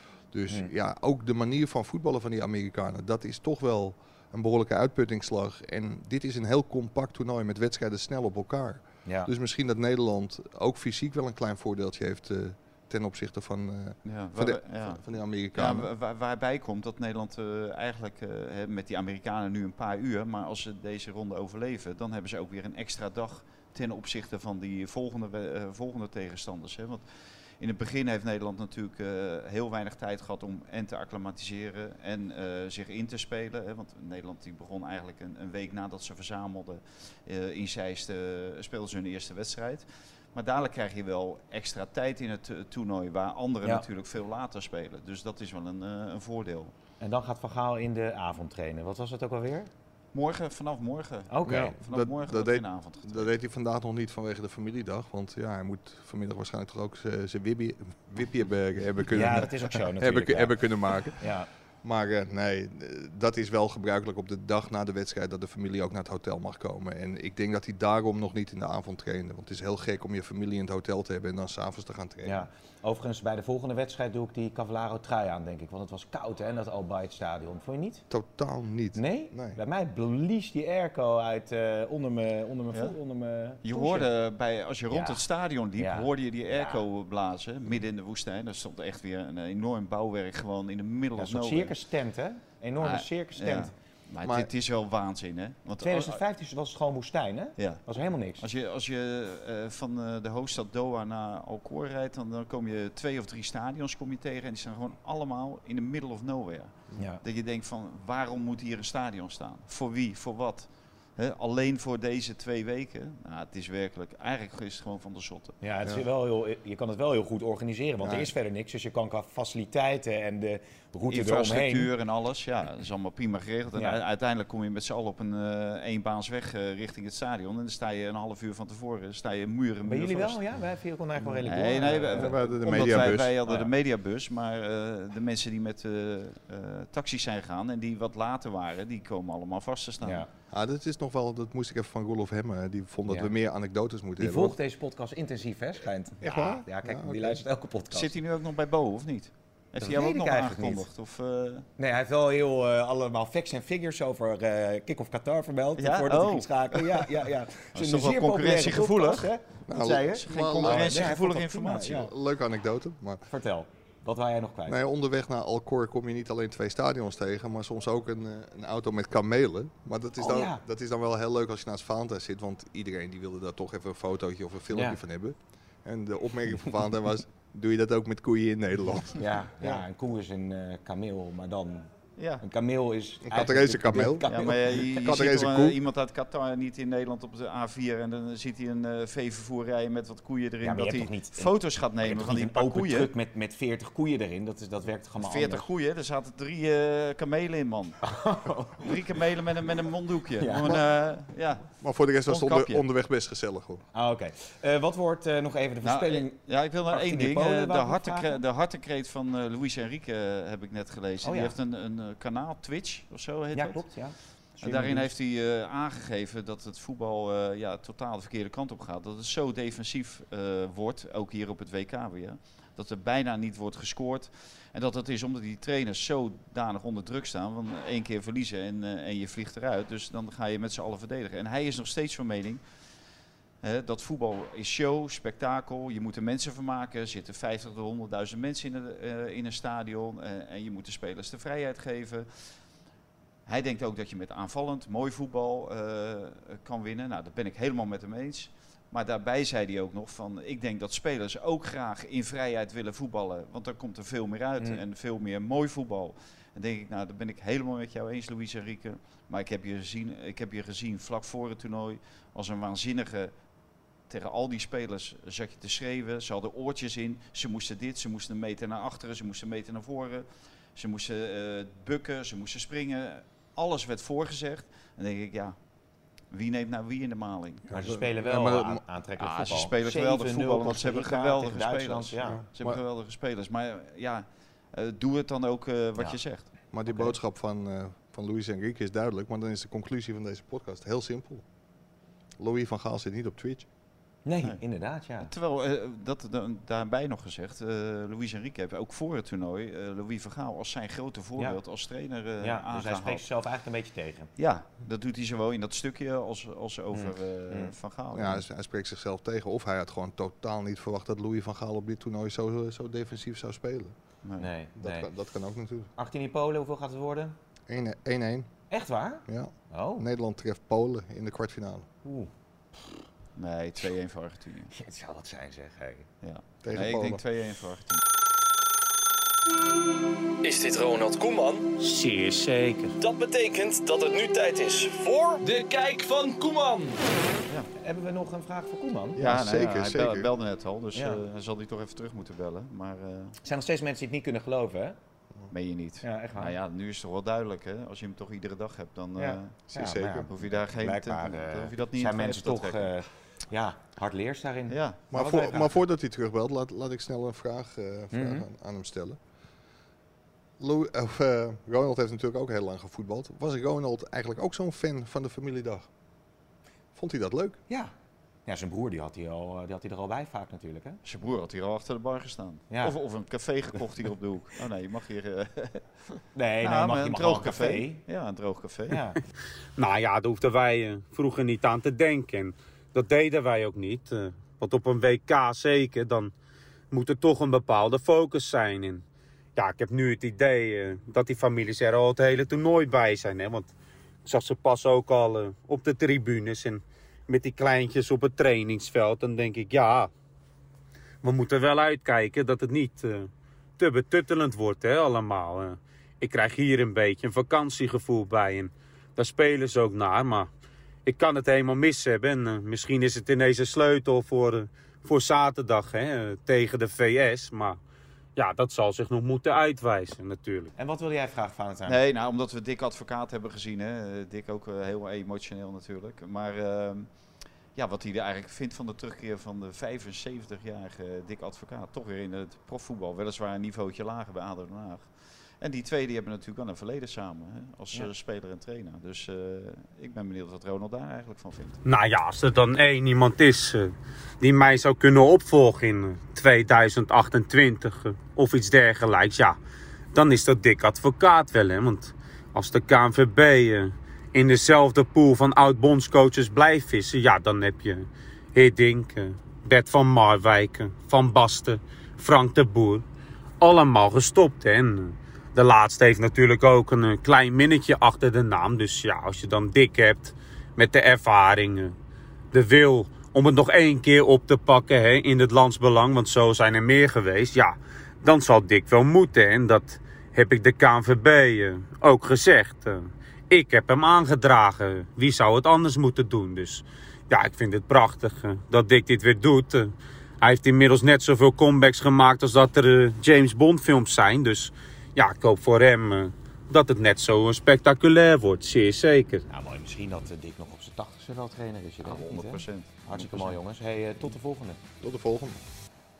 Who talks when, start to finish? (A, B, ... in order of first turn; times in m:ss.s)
0:00.3-0:15.9 A
0:09.0-0:09.3 B
0:14.0-0:46.7 C
0:47.0-0:49.7 B
0:50.1-0:53.4 C
0:51.3-0:51.8 B
0:51.5-1:01.3 A
0:59.1-1:01.5 B
1:01.8-1:12.5 A
1:12.2-1:18.0 B
1:18.1-1:19.6 A
1:19.0-1:24.1 B
1:23.6-1:31.7 C
1:24.9-1:26.8 B
1:31.2-1:33.7 B
1:32.8-1:36.2 C
1:34.2-1:34.5 A
1:35.8-1:38.4 B
1:37.6-1:37.8 C
1:38.4-1:55.6 C
1:55.6-2:01.9 B
1:58.0-1:58.3 A
2:01.1-2:10.4 C
2:09.9-2:13.7 B
2:11.2-2:13.4 A
2:11.5-2:20.3 C
2:20.0-2:20.3 B
2:20.5-2:24.6 A
2:24.2-2:28.2 B
2:26.2-2:27.4 A
2:27.9-2:31.7 C
2:29.8-2:30.9 B
2:31.8-2:42.1 B
2:35.8-2:39.3 C
2:39.7-2:41.1 A
2:40.2-2:42.1 C
2:41.8-2:43.3 A
2:43.3-2:44.8 B
2:44.7-2:59.8 A
2:50.2-2:50.6 B
2:54.7-2:55.0 B
2:59.2-3:04.6 B
3:02.2-3:02.4 C
3:03.2-3:05.8 A
3:04.3-3:13.1 C
3:10.6-3:15.7 B
3:15.2-3:18.1 C
3:18.0-3:18.9 B
3:18.8-3:22.8 C
3:20.4-3:20.8 B
3:21.8-3:23.8 A
3:23.9-3:28.4 B
3:25.8-3:52.6 C
3:31.2-3:31.6 B
3:33.6-3:35.1 B
3:53.6-4:02.7 C
4:03.5-4:23.5 C
4:24.0-4:35.7 C
4:36.2-4:37.7 C
4:37.7-4:38.8 A
4:37.7-4:42.4 B
4:39.2-4:46.5 C
4:42.3-4:42.8 A
4:46.0-4:47.2 B
4:46.7-4:51.4 A
4:52.4-4:53.7 A
4:54.2-4:55.3 B
4:55.2-5:03.3 C
5:02.4-5:04.3 B
5:04.4-5:08.4 C
5:06.9-5:07.7 B
5:08.1-5:14.0 A
5:14.2-5:14.5 C
5:14.4-5:15.1 B
5:14.8-5:15.9 A
5:16.0-5:17.4 B
5:17.7-5:18.6 A
5:18.7-5:20.1 B
5:19.3-5:21.9 A
5:22.0-5:23.0 B
5:23.4-5:24.7 C
5:24.7-5:26.1 B
5:26.2-5:28.0 C
5:26.6-5:27.2 A
5:30.4-5:31.6 D
5:31.8-5:33.0 E
5:33.0-5:37.0 D
5:37.8-5:39.2 B
5:39.2-5:43.4 C
5:39.2-5:40.3 A
5:41.0-5:41.2 B
5:43.4-5:45.0 B
5:45.5-5:52.9 C
5:46.0-5:46.6 B
5:49.2-5:55.7 B
5:49.7-5:50.3 A
5:54.7-5:55.0 C
5:55.1-5:59.2 A
5:58.1-5:58.4 B
6:00.6-6:05.9 A
6:06.9-6:07.6 A
6:08.5-6:11.0 B
6:11.0-6:19.0 C
6:12.7-6:13.0 B
6:16.3-6:18.0 B
6:18.9-6:19.2 B
6:19.8-6:26.3 E
6:26.9-6:29.0 E
6:29.6-6:33.7 E
6:34.2-6:40.1 E
6:41.2-6:50.5 E
6:51.1-6:57.8 E
6:58.4-7:00.7 E
7:00.8-7:02.0 B
7:01.9-7:21.8 C
7:21.8-7:29.6 E
7:30.1-7:43.0 E
7:43.6-7:52.0 E
7:52.5-8:19.4 E
8:19.5-8:24.8 B
8:22.0-8:23.6 C
8:25.0-8:25.6 A